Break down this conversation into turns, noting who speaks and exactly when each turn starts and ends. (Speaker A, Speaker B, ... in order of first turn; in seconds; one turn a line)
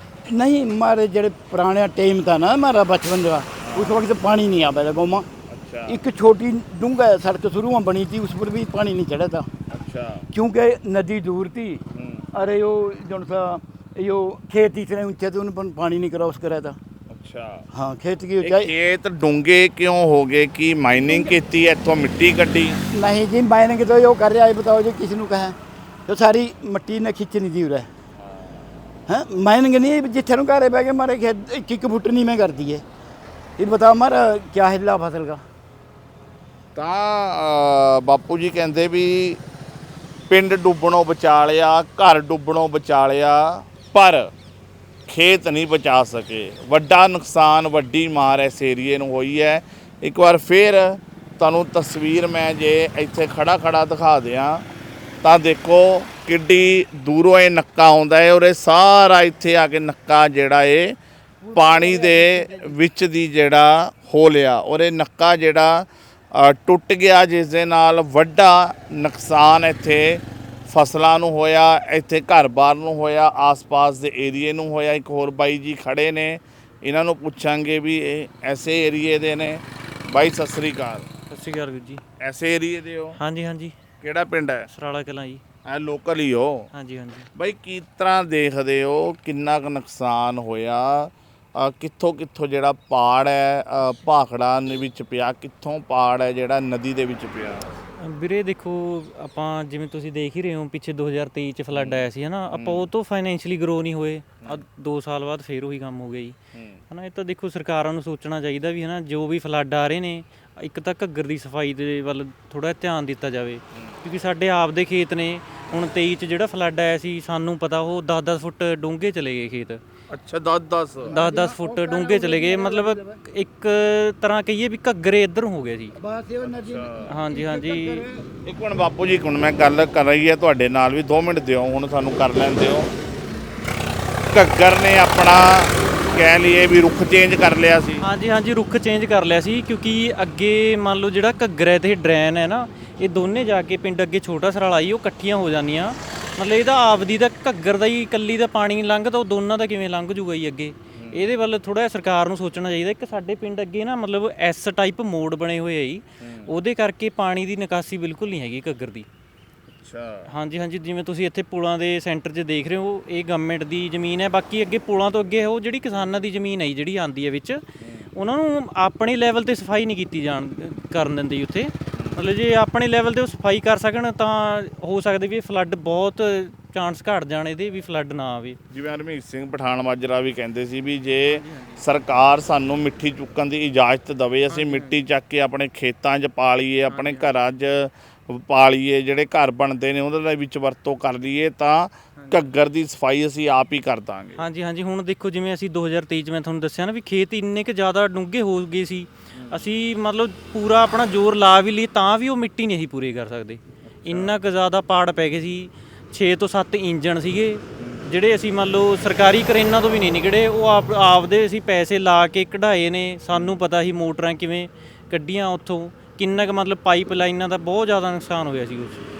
Speaker A: 0.3-5.2
Speaker B: 3.6-4.0
Speaker B: 5.5-6.0
Speaker A: 5.9-9.5
Speaker B: 9.7-10.3
Speaker A: 10.3-11.8
Speaker B: 11.9-12.3
Speaker A: 12.3-16.8
Speaker B: 17.1-17.7
Speaker A: 17.7-18.7
Speaker B: 18.4-22.8
Speaker A: 21.1-21.4
Speaker A: 22.9-25.6
Speaker A: 26.1-27.9
Speaker B: 28.2-28.6
Speaker A: 29.1-32.8
Speaker A: 33.6-35.4
Speaker B: 36.7-39.4
Speaker B: 40.3-44.3
Speaker B: 45.1-54.6
Speaker B: 55.2-60.9
Speaker A: 61.4-62.8
Speaker B: 61.5-81.1
Speaker C: 81.3-82.0
Speaker B: 82.2-83.2
Speaker C: 83.2-83.7
Speaker B: 84.0-84.7
Speaker C: 84.7-85.4
Speaker B: 85.6-86.7
Speaker C: 86.7-87.3
Speaker B: 87.3-97.7
Speaker C: 98.0-106.3
Speaker B: 101.7-102.9
Speaker B: 106.5-106.8
Speaker C: 106.9-119.8
Speaker B: 113.7-114.0
Speaker B: 120.1-121.1
Speaker A: 121.0-123.2
Speaker C: 121.1-125.9
Speaker A: 126.0-128.2
Speaker B: 126.4-127.1
Speaker C: 127.0-128.0
Speaker B: 128.4-132.9
Speaker B: 134.3-138.1
Speaker C: 138.0-159.1
Speaker B: 150.9-151.2
Speaker B: 156.2-156.5
Speaker B: 159.7-160.3
Speaker C: 160.3-167.6
Speaker B: 167.8-168.1
Speaker C: 168.1-178.6
Speaker B: 171.9-172.2
Speaker B: 178.7-194.4
Speaker C: 181.2-181.8
Speaker C: 184.5-185.0
Speaker C: 186.9-187.3
Speaker C: 192.2-192.5
Speaker C: 194.4-219.0
Speaker B: 199.3-199.6
Speaker B: 204.0-204.3
Speaker B: 207.8-208.1
Speaker B: 213.3-213.6